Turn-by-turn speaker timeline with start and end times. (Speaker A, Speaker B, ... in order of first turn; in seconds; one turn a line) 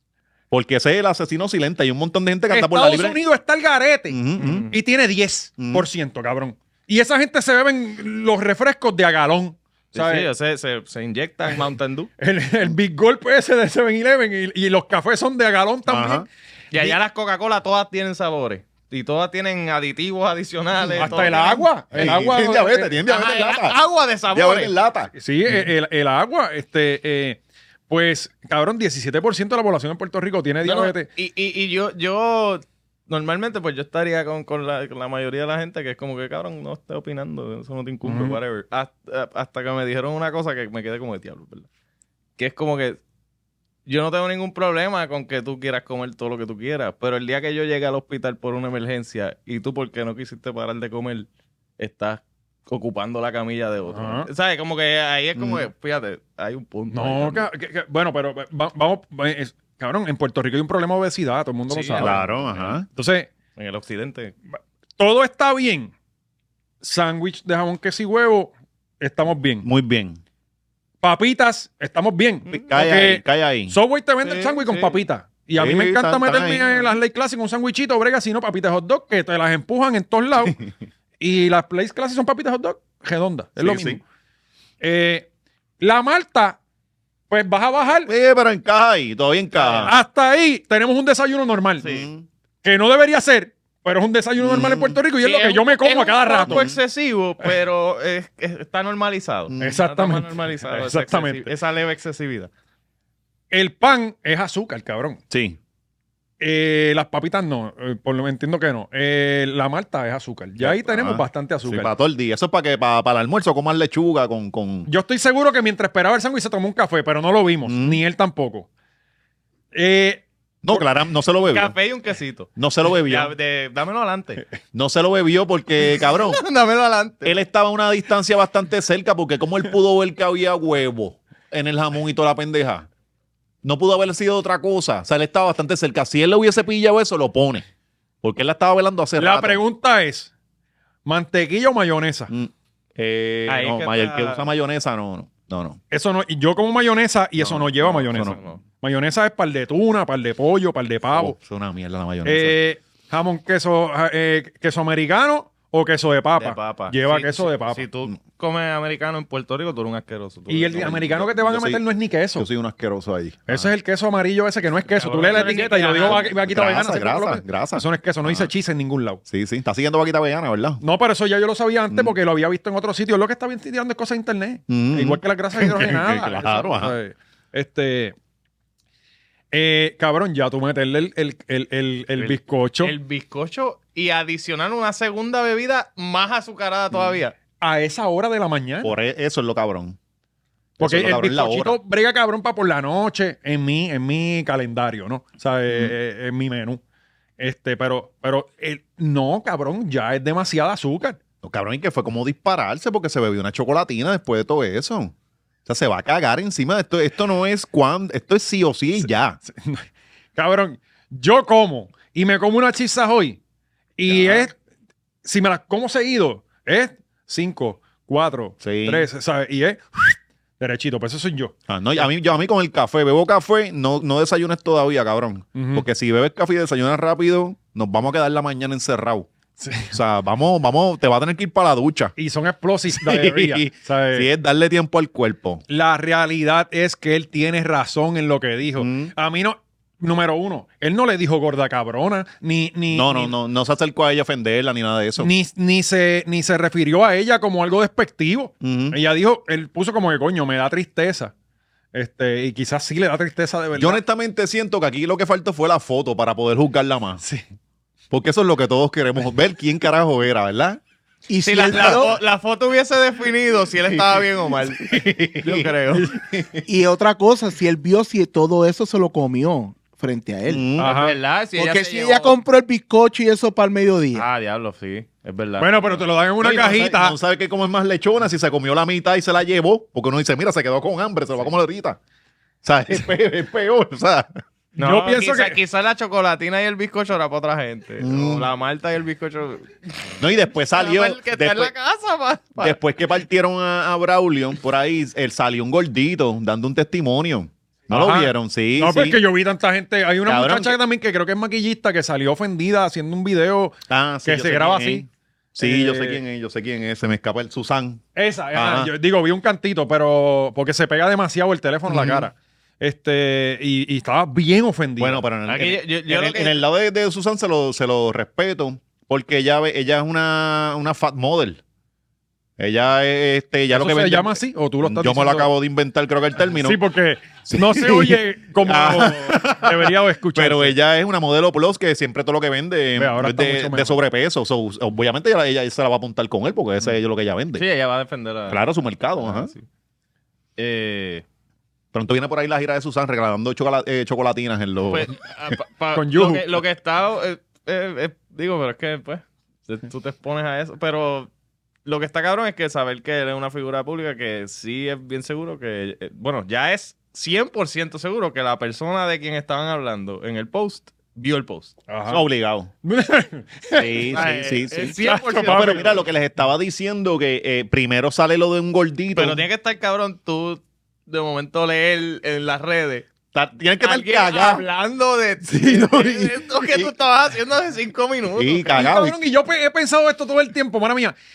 Speaker A: 0.5-3.2
Speaker B: 2.5-10.3
Speaker A: 4.1-4.7
Speaker C: 4.4-4.7
Speaker A: 5.6-5.8
Speaker C: 9.9-12.1
Speaker B: 12.2-16.3
Speaker A: 15.9-16.9
Speaker C: 16.7-22.1
Speaker A: 20.9-21.4
Speaker B: 21.0-22.9
Speaker A: 21.9-23.8
Speaker C: 23.1-24.7
Speaker A: 24.3-25.7
Speaker B: 25.1-31.1
Speaker C: 30.6-41.7
Speaker B: 38.0-38.4
Speaker C: 42.4-43.0
Speaker C: 43.9-51.3
Speaker C: 51.8-57.5
Speaker B: 53.9-54.3
Speaker A: 55.4-55.7
Speaker B: 56.9-62.2
Speaker C: 61.7-62.7
Speaker A: 62.0-62.9
Speaker B: 62.9-63.3
Speaker C: 63.6-64.3
Speaker B: 64.5-65.9
Speaker B: 66.8-69.7
Speaker A: 69.6-70.2
Speaker B: 71.0-80.6
Speaker A: 72.5-73.8
Speaker C: 74.2-75.0
Speaker A: 75.6-76.7
Speaker B: 81.2-84.0
Speaker A: 83.6-84.0
Speaker B: 84.8-85.3
Speaker B: 85.8-86.6
Speaker B: 87.3-88.1
Speaker A: 88.1-90.0
Speaker C: 89.6-89.9
Speaker B: 89.8-91.9
Speaker C: 91.8-92.1
Speaker A: 91.8-92.3
Speaker B: 92.6-96.6
Speaker A: 94.4-95.0
Speaker C: 95.2-102.5
Speaker A: 96.5-96.8
Speaker A: 99.5-99.8
Speaker B: 99.6-101.5
Speaker B: 103.5-105.2
Speaker A: 105.3-105.6
Speaker B: 106.4-111.9
Speaker A: 110.6-114.9
Speaker B: 114.9-118.7
Speaker A: 117.7-118.0
Speaker B: 119.7-120.8
Speaker A: 120.6-121.7
Speaker C: 121.5-124.4
Speaker A: 122.6-123.3
Speaker A: 124.7-126.4
Speaker C: 125.9-127.3
Speaker A: 127.2-132.9
Speaker A: 133.6-137.6
Speaker A: 138.2-139.6
Speaker B: 139.2-140.3
Speaker B: 141.1-142.3
Speaker A: 142.3-145.8
Speaker C: 143.5-144.4
Speaker B: 145.9-151.3
Speaker A: 147.4-148.4
Speaker C: 147.9-148.6
Speaker A: 151.1-152.6
Speaker B: 152.2-157.8
Speaker C: 156.4-161.1
Speaker B: 160.5-162.5
Speaker A: 160.8-161.8
Speaker A: 162.3-163.7
Speaker B: 163.5-169.2
Speaker C: 165.0-166.3
Speaker A: 165.5-168.5
Speaker A: 169.3-170.8
Speaker B: 170.8-178.2
Speaker A: 174.7-177.0
Speaker B: 179.5-182.9
Speaker C: 182.2-187.3
Speaker A: 186.9-187.2
Speaker B: 187.6-188.9
Speaker A: 188.8-190.0
Speaker A: 190.8-191.8
Speaker B: 190.8-196.8
Speaker A: 195.7-195.9
Speaker B: 197.4-201.2
Speaker A: 201.4-205.1
Speaker A: 205.7-209.4
Speaker B: 209.5-213.4
Speaker B: 214.0-214.6
Speaker A: 214.1-214.5
Speaker B: 215.2-221.5
Speaker A: 218.6-219.1
Speaker A: 221.7-229.3
Speaker B: 225.6-225.9
Speaker B: 229.6-229.9
Speaker A: 229.9-232.1
Speaker B: 232.2-234.3
Speaker A: 232.9-235.6
Speaker B: 235.7-243.3
Speaker A: 238.8-239.1
Speaker A: 242.9-245.3
Speaker B: 245.2-251.3
Speaker A: 248.6-249.0
Speaker B: 251.9-254.0
Speaker A: 253.8-257.2
Speaker A: 258.1-260.8
Speaker D: 261.3-262.2
Speaker C: 261.4-266.1
Speaker A: 261.7-262.0
Speaker A: 263.9-266.6
Speaker D: 266.7-270.7
Speaker A: 270.5-270.9
Speaker B: 270.8-271.2
Speaker C: 270.8-272.4
Speaker D: 271.6-274.3
Speaker C: 274.1-276.0
Speaker B: 275.6-277.2
Speaker A: 276.4-282.0
Speaker A: 282.6-284.4
Speaker C: 284.8-292.8
Speaker B: 284.8-285.6
Speaker A: 288.0-288.5
Speaker A: 290.2-291.7
Speaker A: 292.6-299.2
Speaker B: 297.9-305.1
Speaker A: 300.2-300.8
Speaker A: 303.9-308.9
Speaker B: 305.6-306.2
Speaker B: 308.1-315.2
Speaker A: 311.9-312.3
Speaker A: 315.0-321.6
Speaker C: 315.5-316.6
Speaker A: 322.6-326.8
Speaker B: 323.7-325.5
Speaker B: 326.6-330.8
Speaker A: 327.5-337.6
Speaker B: 333.0-334.0
Speaker C: 337.6-338.6
Speaker A: 338.5-339.5
Speaker C: 339.2-339.6
Speaker C: 340.6-341.2
Speaker A: 341.9-345.1
Speaker C: 344.9-351.3
Speaker B: 345.9-346.4
Speaker C: 351.9-361.8
Speaker B: 361.9-362.2
Speaker A: 362.1-362.7
Speaker B: 362.8-365.9
Speaker A: 363.8-369.5
Speaker C: 364.1-366.1
Speaker C: 369.2-373.1
Speaker A: 373.3-374.6
Speaker C: 373.8-378.8
Speaker A: 375.5-376.9
Speaker A: 378.3-379.2
Speaker B: 378.8-381.2